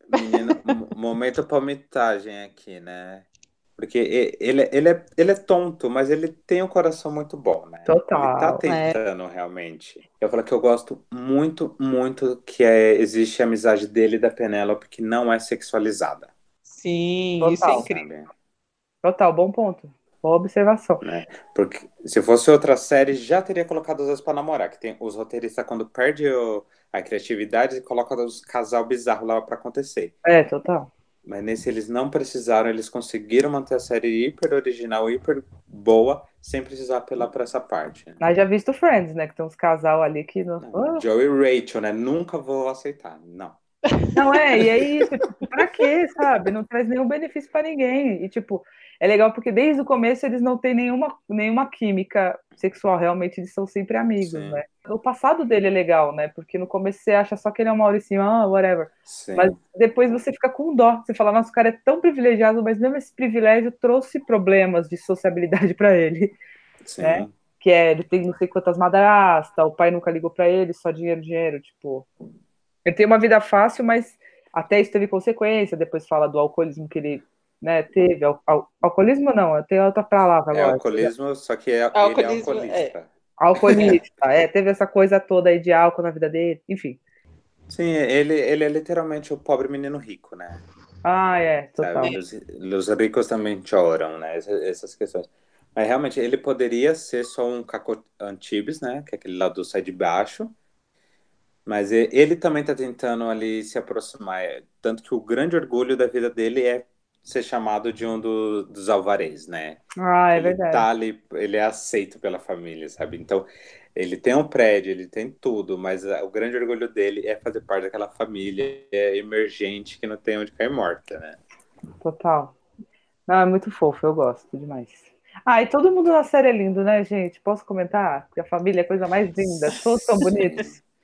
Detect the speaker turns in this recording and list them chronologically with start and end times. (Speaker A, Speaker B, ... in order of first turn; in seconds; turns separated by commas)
Speaker A: 0.1-16.3, Speaker B: 7.9-8.6, Speaker C: 8.7-9.0, Speaker C: 16.7-18.1, Speaker B: 17.4-17.9, Speaker A: 17.7-18.3, Speaker B: 19.0-21.0, Speaker A: 21.0-30.1, Speaker B: 30.2-30.9, Speaker A: 31.2-38.2, Speaker B: 38.2-41.0, Speaker A: 40.6-43.6, Speaker B: 44.1-66.4, Speaker A: 54.2-54.6, Speaker A: 59.1-59.5, Speaker A: 66.8-67.3, Speaker B: 67.0-72.1, Speaker B: 72.8-81.1, Speaker A: 80.5-83.1, Speaker C: 81.9-82.9, Speaker B: 83.4-87.0, Speaker A: 83.7-84.0, Speaker A: 87.7-90.6, Speaker B: 91.0-92.1, Speaker A: 91.8-100.5, Speaker A: 101.7-109.8, Speaker B: 110.0-110.9, Speaker A: 110.3-121.4, Speaker B: 122.0-122.5, Speaker B: 123.3-130.7, Speaker A: 130.2-130.7